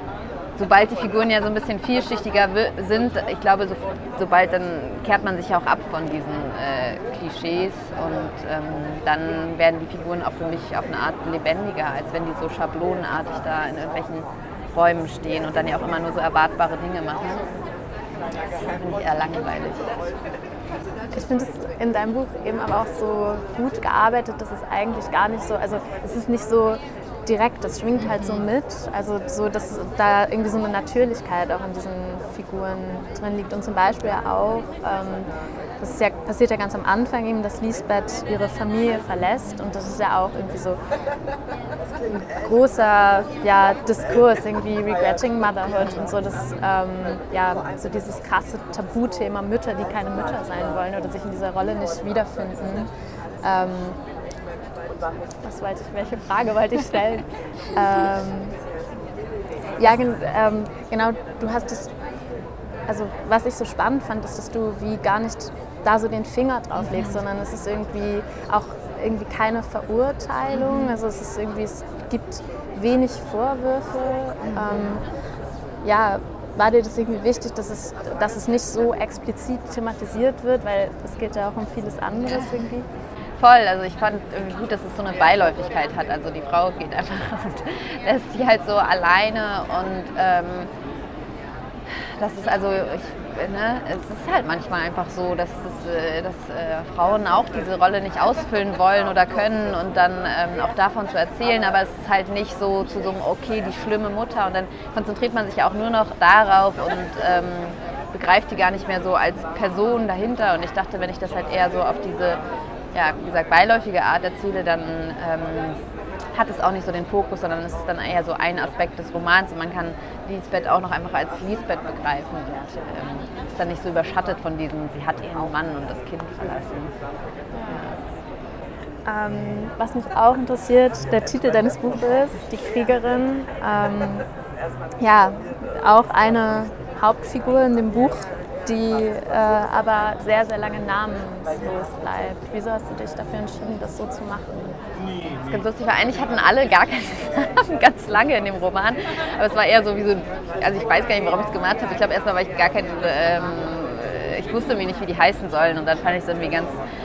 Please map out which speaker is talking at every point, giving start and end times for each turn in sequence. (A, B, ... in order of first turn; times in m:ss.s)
0:00.6-0:17.6 A
0:18.6-0:19.9 A
0:21.1-0:40.8 B
0:28.0-0:28.4 A
0:42.1-0:52.9 B
0:53.4-0:54.0 B
0:55.4-0:58.6 B
0:59.8-1:01.9 B
1:02.9-1:15.0 B
1:06.8-1:07.2 A
1:10.5-1:11.0 A
1:14.6-1:15.0 A
1:15.8-1:22.9 B
1:23.4-1:30.7 A
1:31.9-1:52.4 A
1:52.9-1:55.8 A
1:56.3-2:06.9 A
2:07.5-2:07.9 B
2:07.7-2:08.0 A
2:09.0-2:14.3 B
2:15.0-2:24.8 B
2:25.4-2:36.8 A